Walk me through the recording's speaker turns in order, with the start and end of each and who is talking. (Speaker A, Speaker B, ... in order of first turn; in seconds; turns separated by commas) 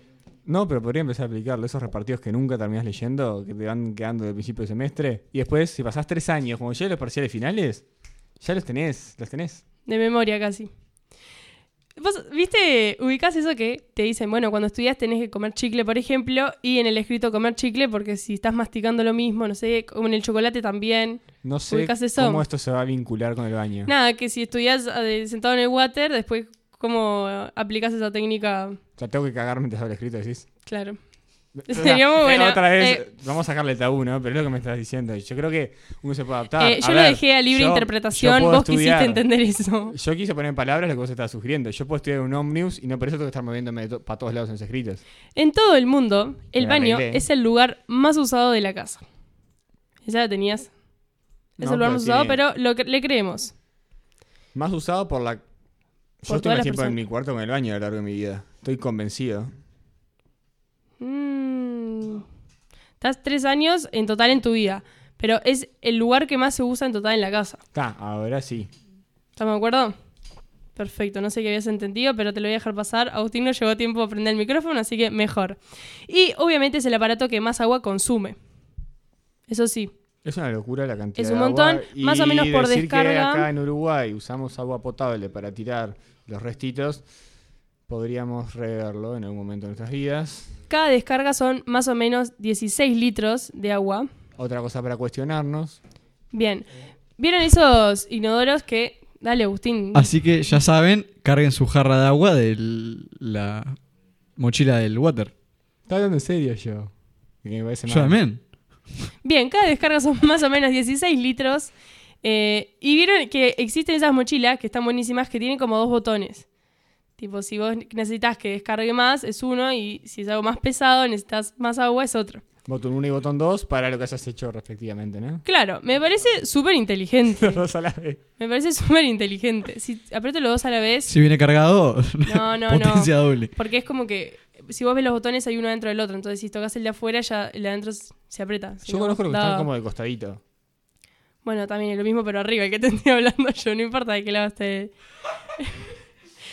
Speaker A: 0.5-7.8, Speaker A: 8.4-9.6, Speaker B: 9.9-10.7, Speaker B: 12.0-22.4, Speaker A: 21.4-23.9, Speaker B: 23.9-28.8, Speaker A: 29.0-30.5, Speaker B: 30.7-31.0, Speaker A: 31.6-39.2, Speaker B: 31.7-33.0, Speaker B: 36.6-39.9, Speaker A: 39.9-45.0, Speaker B: 45.4-49.0, Speaker A: 46.6-47.2, Speaker B: 50.0-50.7, Speaker B: 51.6-53.5, Speaker A: 51.6-52.4, Speaker A: 54.5-55.4, Speaker A: 56.2-59.5, Speaker B: 56.2-57.0, Speaker B: 61.0-62.2, Speaker B: 63.0-67.6, Speaker A: 67.7-68.7, Speaker B: 69.4-69.9, Speaker B: 70.8-78.4, Speaker B: 79.5-79.9, Speaker A: 80.2-87.0, Speaker B: 81.2-83.5, Speaker A: 87.9-90.5, Speaker B: 90.7-94.1, Speaker A: 94.4-95.8, Speaker B: 96.3-100.1, Speaker C: 99.9-103.8, Speaker C: 104.4-105.3, Speaker A: 105.9-106.9, Speaker A: 107.4-108.2, Speaker C: 107.9-108.4, Speaker B: 109.2-111.7, Speaker B: 112.2-116.5, Speaker B: 117.2-122.4, Speaker A: 122.6-125.4, Speaker B: 125.4-127.6, Speaker A: 127.4-128.2, Speaker B: 128.4-131.1, Speaker C: 131.1-133.5, Speaker B: 132.2-139.7, Speaker A: 138.8-140.4, Speaker B: 141.4-144.9, Speaker B: 145.6-145.9